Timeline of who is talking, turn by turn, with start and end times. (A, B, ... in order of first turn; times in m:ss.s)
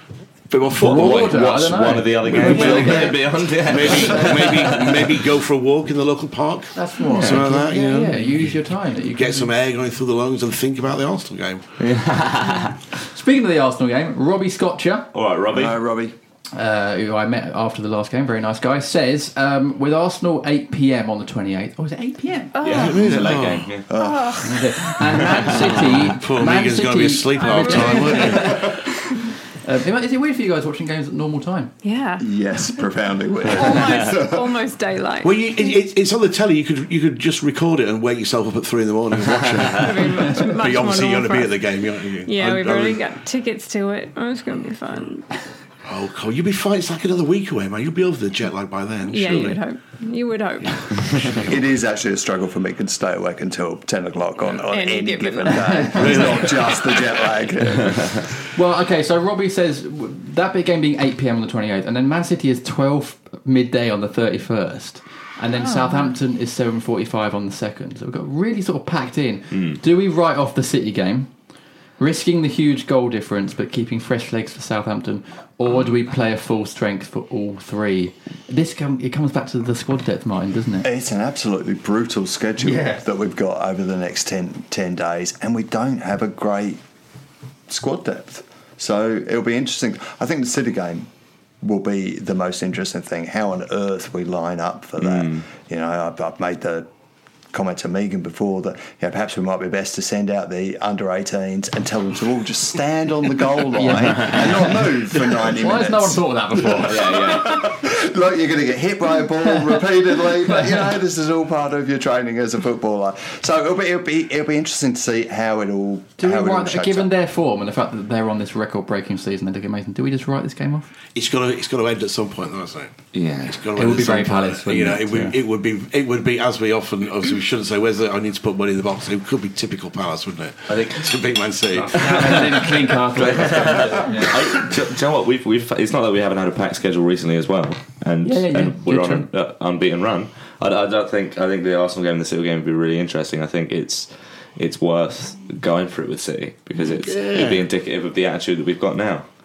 0:00.5-0:01.4 A
0:00.7-0:04.5 B
0:00.8-0:05.2 C
0:02.2-0:08.4 A
0:06.7-0:09.5 B
0:07.1-0:07.5 C
0:09.0-0:11.6 A
0:11.8-0:12.8 C
0:13.1-0:15.1 B
0:15.1-0:15.8 C
0:15.5-0:16.2 D
0:16.5-0:22.6 B
0:22.5-0:23.2 E
0:22.6-0:23.9 C
0:22.8-0:23.8 A
0:23.9-0:24.4 D
0:23.9-0:24.7 E
0:24.4-0:28.7 B
0:25.4-0:28.6 A
0:27.4-0:28.4 E
0:29.6-0:31.7 B
0:31.8-0:32.3 E
0:32.2-0:34.6 D
0:33.4-0:35.8 E
0:35.2-0:43.0 A
0:39.7-0:45.4 E
0:45.8-0:49.6 A
0:49.1-0:51.6 E
0:50.6-0:51.5 A
0:51.4-0:58.3 D
0:54.7-0:57.0 E
0:55.5-0:56.4 B
0:56.0-0:56.7 A
0:57.8-0:58.1 C
0:58.5-1:11.3 B
1:05.6-1:06.1 E
1:12.0-1:20.9 B
1:20.8-1:26.8 D
1:22.6-1:23.0 B
1:27.7-1:31.1 D
1:31.6-1:36.9 D
1:35.0-1:35.4 C
1:37.5-1:57.1 D
1:43.8-1:47.1 B
1:46.8-1:47.6 C
1:56.2-2:00.9 B
2:01.1-2:12.8 A
2:03.1-2:03.7 C
2:03.8-2:05.4 B
2:10.7-2:11.2 C
2:11.7-2:14.3 B
2:12.0-2:29.3 C
2:14.1-2:14.6 A
2:18.2-2:19.3 B
2:26.8-2:27.6 A